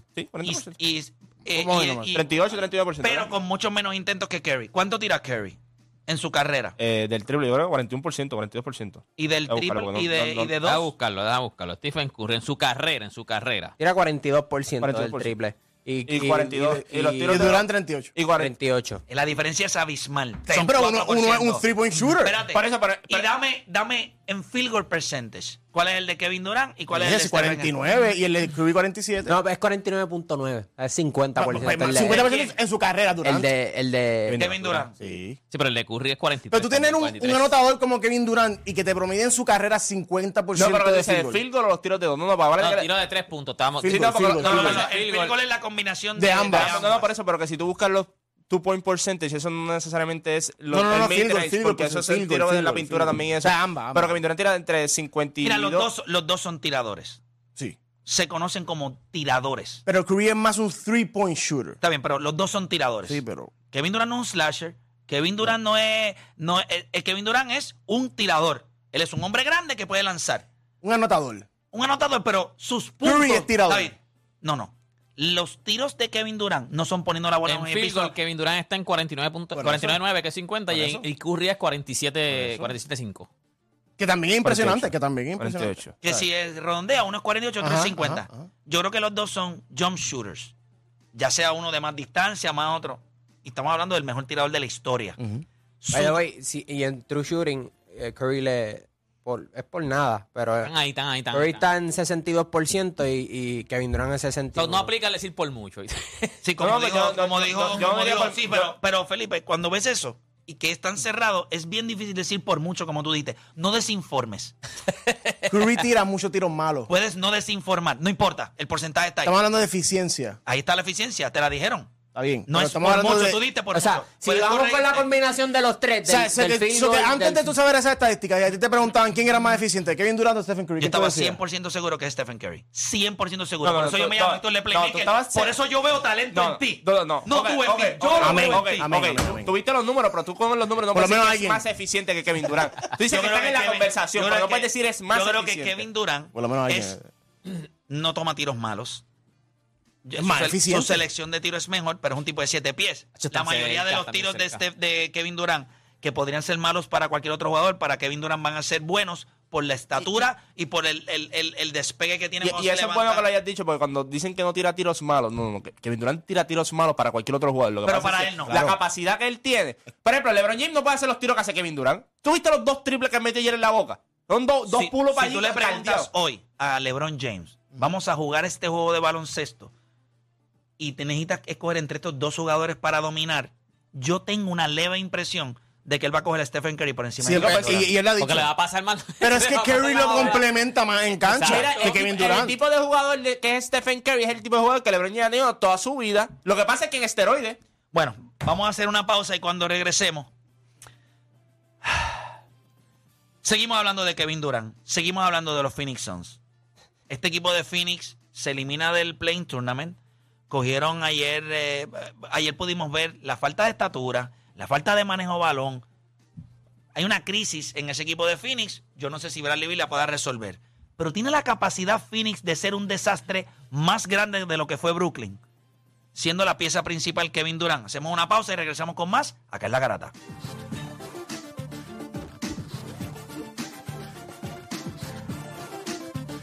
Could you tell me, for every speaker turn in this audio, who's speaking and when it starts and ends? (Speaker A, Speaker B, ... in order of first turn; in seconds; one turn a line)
Speaker A: 0.1-0.8
Speaker B: 0.4-2.2
Speaker C: 1.5-2.2
Speaker A: 2.1-3.3
Speaker B: 3.0-6.7
Speaker A: 6.8-10.5
Speaker B: 9.2-10.9
Speaker D: 10.6-13.7
Speaker E: 13.8-17.5
Speaker A: 14.8-15.3
Speaker A: 16.1-18.5
Speaker C: 17.3-18.1
Speaker E: 18.4-19.0
Speaker B: 19.1-21.7
Speaker C: 20.5-22.4
Speaker B: 22.2-27.7
Speaker A: 22.5-23.3
Speaker C: 26.9-29.3
Speaker E: 29.2-32.3
Speaker C: 31.4-33.5
Speaker B: 32.0-32.6
Speaker E: 33.2-34.4
Speaker C: 34.3-35.4
Speaker B: 34.4-35.0
Speaker D: 35.5-37.5
Speaker C: 36.5-41.4
Speaker A: 40.5-42.9
Speaker D: 42.6-45.3
Speaker C: 43.8-44.8
Speaker A: 43.8-44.8
Speaker B: 44.4-47.1
Speaker C: 46.1-46.8
Speaker A: 46.5-55.9
Speaker C: 50.7-54.2
Speaker B: 55.4-57.2
Speaker B: 58.0-59.8
Speaker C: 59.9-61.8
Speaker B: 61.8-70.4
Speaker C: 63.0-63.5
Speaker C: 70.8-71.5
Speaker B: 71.7-78.1
Speaker C: 73.0-73.9
Speaker D: 77.5-83.3
Speaker C: 79.5-80.0
Speaker C: 80.7-81.0
Speaker C: 82.4-82.7
Speaker C: 84.0-86.2
Speaker A: 84.4-86.0
Speaker B: 86.0-90.5
Speaker C: 87.6-88.4
Speaker B: 91.1-95.2
Speaker C: 95.2-95.4
Speaker B: 95.8-96.2
Speaker E: 95.9-100.7
Speaker D: 100.6-101.6
Speaker E: 101.3-104.9
Speaker D: 104.5-106.4
Speaker B: 106.4-114.5
Speaker A: 106.6-108.7
Speaker C: 115.5-116.9
Speaker B: 116.9-119.4
Speaker C: 119.2-120.4
Speaker B: 120.5-121.9
Speaker C: 122.1-123.4
Speaker B: 122.5-125.1
Speaker E: 123.7-127.6
Speaker C: 126.0-131.4
Speaker B: 130.8-138.9
Speaker A: 133.6-135.5
Speaker A: 136.3-145.8
Speaker C: 138.2-139.5
Speaker C: 140.9-141.6
Speaker B: 143.1-146.9
Speaker C: 146.3-147.1
Speaker B: 147.9-149.0
Speaker B: 150.0-163.3
Speaker C: 150.2-151.0
Speaker D: 153.2-154.6
Speaker A: 162.4-176.1
Speaker B: 167.8-168.6
Speaker C: 168.5-168.8
Speaker B: 174.7-179.7
Speaker B: 180.8-187.9
Speaker C: 187.2-188.5
Speaker A: 187.3-187.9
Speaker D: 188.2-190.5
Speaker C: 189.2-192.6
Speaker D: 191.2-192.0
Speaker A: 191.5-197.6
Speaker B: 197.9-200.3
Speaker B: 203.4-206.4
Speaker B: 207.1-210.0
Speaker B: 210.5-215.8
Speaker B: 216.9-225.4
Speaker B: 226.1-230.1